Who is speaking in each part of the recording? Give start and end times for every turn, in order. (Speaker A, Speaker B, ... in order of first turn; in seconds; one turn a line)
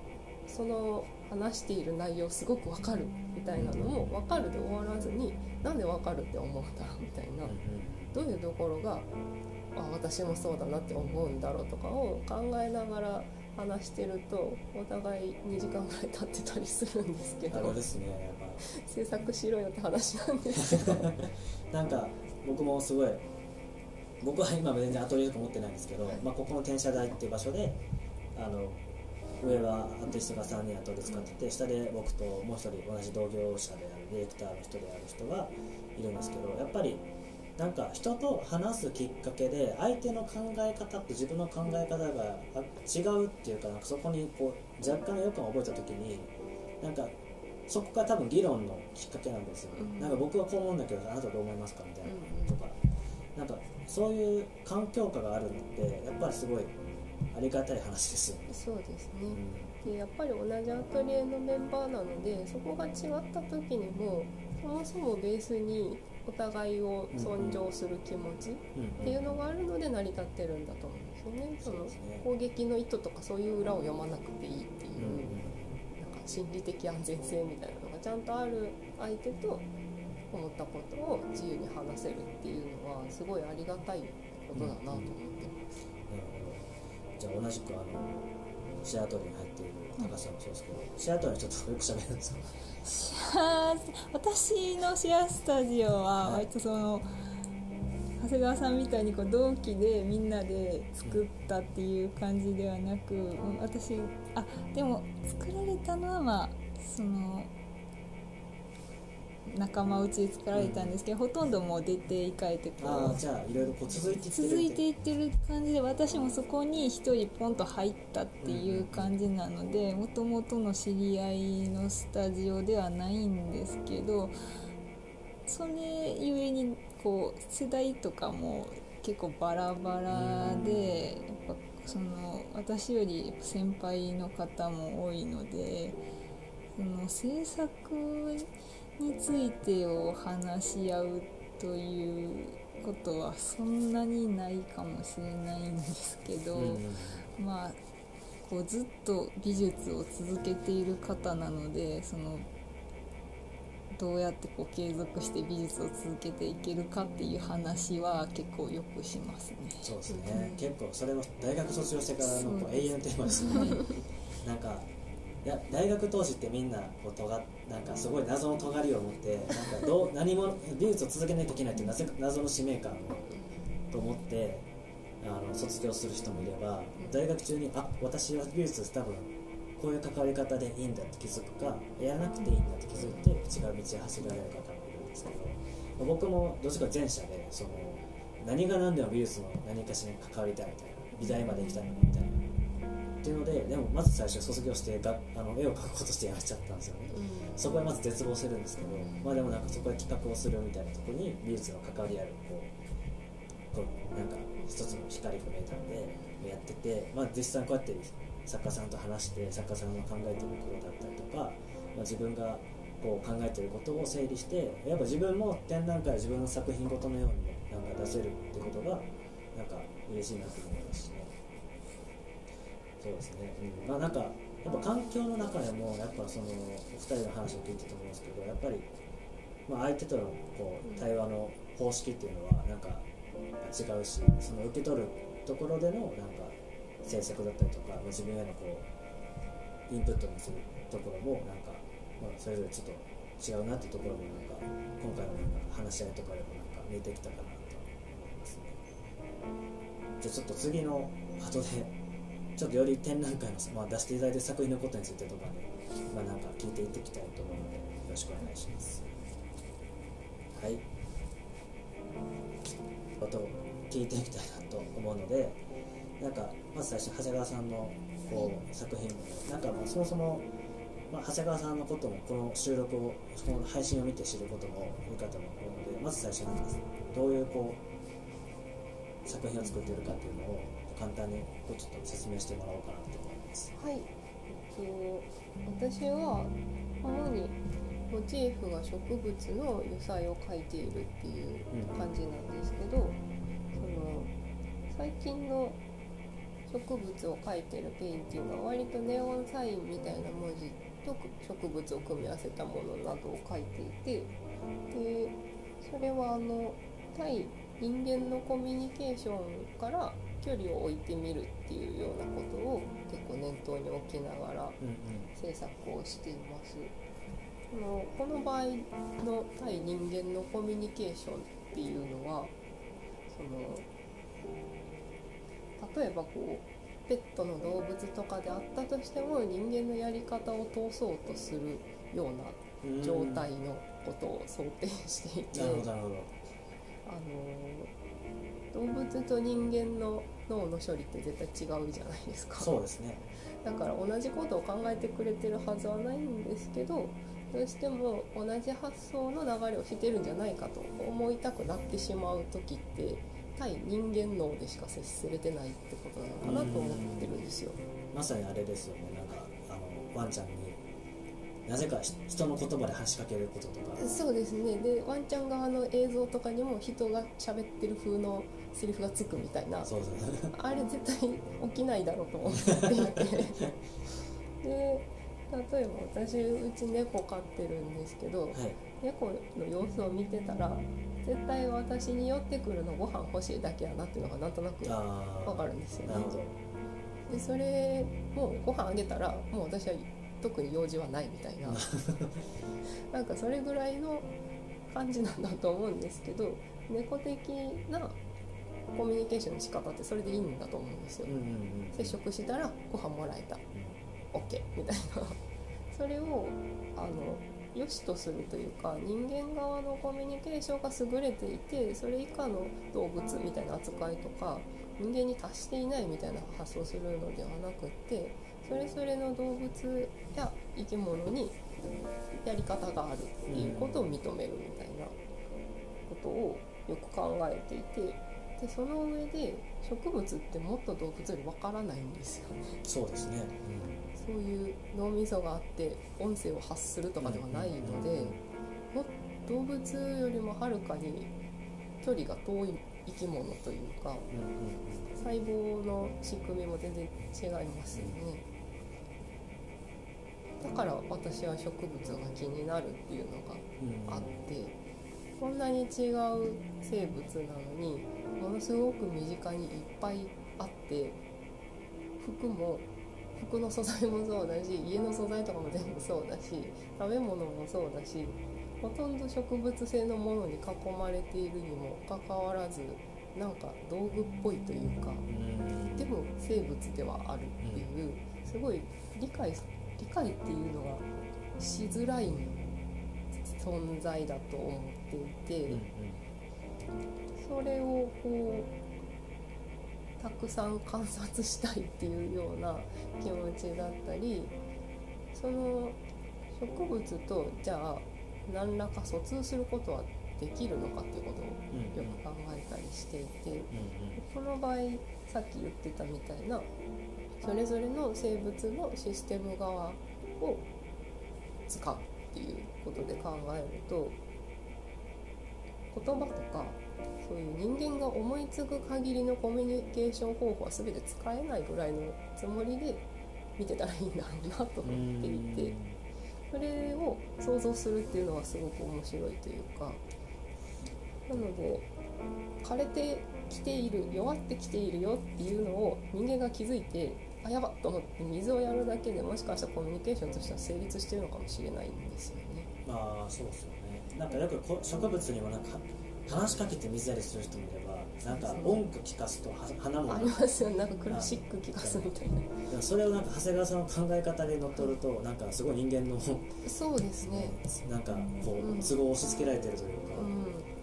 Speaker A: 0.5-7.5
Speaker B: 3.6-4.1
Speaker B: 7.4-8.2
Speaker A: 8.1-9.1
Speaker A: 9.8-17.8
Speaker B: 17.5-18.6
Speaker A: 18.6-21.1
Speaker B: 20.6-23.3
Speaker B: 24.2-27.8
Speaker B: 28.4-28.8
Speaker B: 29.4-37.0
Speaker B: 37.6-47.1
Speaker B: 47.7-52.8
Speaker A: 49.8-50.1
Speaker A: 52.0-52.6
Speaker B: 53.4-56.8
Speaker B: 57.3-58.6
Speaker A: 58.5-75.4
Speaker B: 59.3-59.8
Speaker B: 67.1-67.6
Speaker B: 68.8-69.2
Speaker B: 71.6-72.2
Speaker B: 75.0-75.8
Speaker A: 75.9-79.7
Speaker A: 80.3-85.8
Speaker B: 84.5-85.1
Speaker B: 86.1-86.7
Speaker B: 87.2-88.3
Speaker B: 88.8-92.5
Speaker C: 92.8-97.1
Speaker B: 96.2-96.5
Speaker C: 98.2-107.5
Speaker C: 109.5-113.2
Speaker B: 110.5-110.9
Speaker B: 112.8-114.8
Speaker C: 114.3-124.3
Speaker B: 118.4-119.1
Speaker C: 125.5-136.0
Speaker B: 130.1-131.1
Speaker C: 136.8-147.8
Speaker B: 146.6-147.3
Speaker C: 148.4-152.5
Speaker C: 153.9-159.9
Speaker B: 159.8-163.9
Speaker A: 160.1-160.6
Speaker A: 162.4-162.7
Speaker A: 163.5-163.9
Speaker B: 164.4-164.9
Speaker B: 165.4-173.3
Speaker B: 173.9-174.7
Speaker B: 175.2-192.4
Speaker B: 193.2-202.7
Speaker A: 197.1-197.6
Speaker B: 203.7-221.3
Speaker B: 223.0-228.9
Speaker B: 229.7-233.1
Speaker B: 233.6-238.9
Speaker B: 239.9-248.8
Speaker B: 250.2-251.9
Speaker B: 252.6-259.1
Speaker B: 260.5-260.9
Speaker B: 263.2-265.6
Speaker B: 266.2-270.5
Speaker B: 271.1-277.8
Speaker B: 279.2-283.7
Speaker A: 279.6-279.9
Speaker A: 283.8-287.6
Speaker A: 288.1-293.2
Speaker B: 291.7-292.1
Speaker A: 293.8-294.3
Speaker A: 294.9-295.8
Speaker A: 296.7-304.3
Speaker A: 304.9-314.8
Speaker B: 314.8-315.3
Speaker A: 315.4-316.9
Speaker A: 317.7-322.5
Speaker A: 323.3-323.9
Speaker A: 325.8-335.9
Speaker B: 332.8-333.5
Speaker B: 335.5-336.3
Speaker A: 337.1-337.9
Speaker A: 338.7-342.7
Speaker B: 342.6-343.2
Speaker A: 343.6-357.8
Speaker B: 356.4-357.4
Speaker B: 358.1-360.8
Speaker B: 361.7-364.0
Speaker A: 364.0-369.9
Speaker B: 369.8-370.5
Speaker A: 370.5-373.6
Speaker B: 372.4-373.7
Speaker A: 374.6-386.3
Speaker B: 378.5-378.8
Speaker B: 384.8-386.6
Speaker A: 387.3-391.9
Speaker B: 391.6-392.4
Speaker A: 393.1-394.3
Speaker A: 394.9-398.2
Speaker A: 398.9-401.4
Speaker B: 401.2-402.2
Speaker A: 401.9-403.6
Speaker A: 404.3-405.4
Speaker A: 405.9-421.6
Speaker A: 422.4-425.1
Speaker B: 423.5-424.1
Speaker A: 426.1-432.8
Speaker B: 432.8-434.1
Speaker A: 434.2-438.4
Speaker B: 437.2-438.4
Speaker A: 438.9-441.3
Speaker A: 442.0-444.3
Speaker B: 444.3-445.1
Speaker A: 445.2-448.4
Speaker A: 450.6-454.8
Speaker B: 453.8-454.3
Speaker A: 455.4-461.2
Speaker A: 462.2-475.3
Speaker B: 475.3-476.1
Speaker A: 475.9-481.1
Speaker A: 481.6-482.8
Speaker A: 483.5-485.8
Speaker B: 485.7-486.2
Speaker A: 487.4-488.7
Speaker A: 490.2-494.5
Speaker A: 495.4-496.0
Speaker A: 496.6-506.7
Speaker B: 501.7-502.2
Speaker B: 503.7-504.2
Speaker A: 507.4-510.6
Speaker A: 511.7-514.2
Speaker A: 515.9-523.0
Speaker A: 523.6-525.8
Speaker B: 524.8-526.0
Speaker A: 526.5-530.0
Speaker A: 531.3-531.9
Speaker A: 532.6-542.7
Speaker B: 542.9-550.3
Speaker A: 548.3-548.8
Speaker A: 550.1-552.6
Speaker B: 551.1-552.1
Speaker B: 552.7-556.5
Speaker A: 556.6-557.6
Speaker B: 557.2-560.3
Speaker A: 558.3-559.0
Speaker A: 560.1-560.7